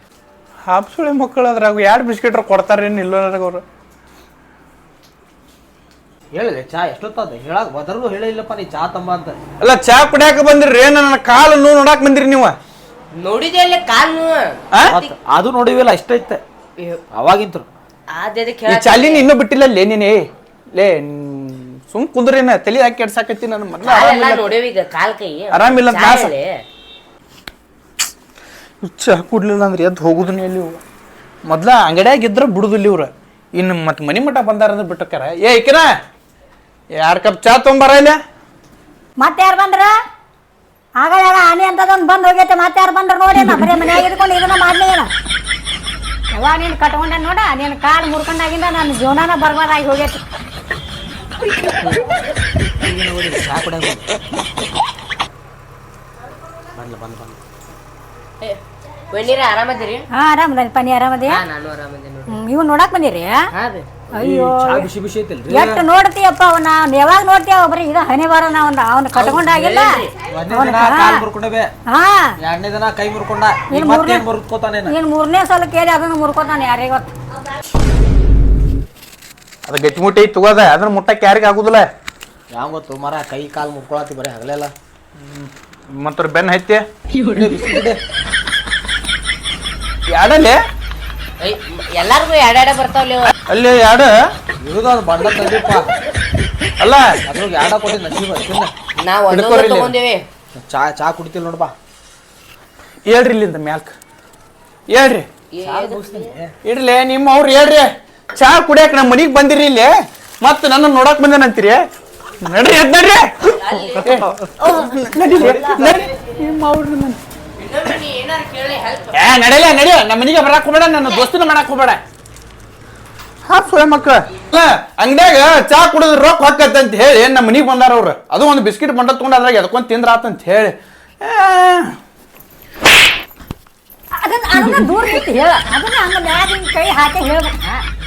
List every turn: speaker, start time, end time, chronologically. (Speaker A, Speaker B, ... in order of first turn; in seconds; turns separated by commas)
Speaker A: 0.7-3.6, Speaker B: 6.3-9.4, Speaker A: 9.6-12.6, Speaker C: 13.1-15.1, Speaker B: 14.9-16.4, Speaker B: 17.1-17.7, Speaker C: 18.1-19.3, Speaker A: 18.7-24.6, Speaker C: 23.8-26.6, Speaker A: 25.5-26.4, Speaker A: 28.8-30.8, Speaker A: 31.5-35.9, Speaker A: 37.0-38.2, Speaker D: 39.2-39.9, Speaker D: 41.0-45.1, Speaker D: 46.3-50.2, Speaker B: 52.8-54.0, Speaker B: 56.8-57.4, Speaker C: 58.4-60.1, Speaker D: 60.1-61.4, Speaker C: 61.3-62.4, Speaker D: 62.3-63.5, Speaker C: 63.5-64.0, Speaker B: 64.1-65.8, Speaker D: 64.2-64.9, Speaker D: 65.5-70.0, Speaker C: 69.2-70.2, Speaker B: 70.3-71.7, Speaker D: 70.5-71.2, Speaker D: 71.9-72.3, Speaker B: 72.4-74.9, Speaker D: 73.7-74.2, Speaker D: 74.9-77.1, Speaker A: 79.7-81.9, Speaker B: 82.5-84.7, Speaker A: 85.2-86.8, Speaker B: 87.3-88.0, Speaker A: 90.1-90.6, Speaker C: 91.4-93.3, Speaker A: 93.5-94.3, Speaker B: 94.6-95.8, Speaker A: 96.8-97.0, Speaker B: 97.3-98.7, Speaker C: 99.0-100.3, Speaker A: 99.3-100.0, Speaker B: 100.6-101.7, Speaker A: 103.1-104.0, Speaker A: 104.9-105.3, Speaker C: 105.5-106.2, Speaker B: 105.6-106.5, Speaker A: 106.6-111.8, Speaker A: 112.4-117.2, Speaker C: 113.7-114.0, Speaker B: 114.0-114.5, Speaker B: 115.2-116.1, Speaker C: 117.6-119.1, Speaker A: 119.1-122.0, Speaker A: 123.5-131.9, Speaker D: 134.1-137.8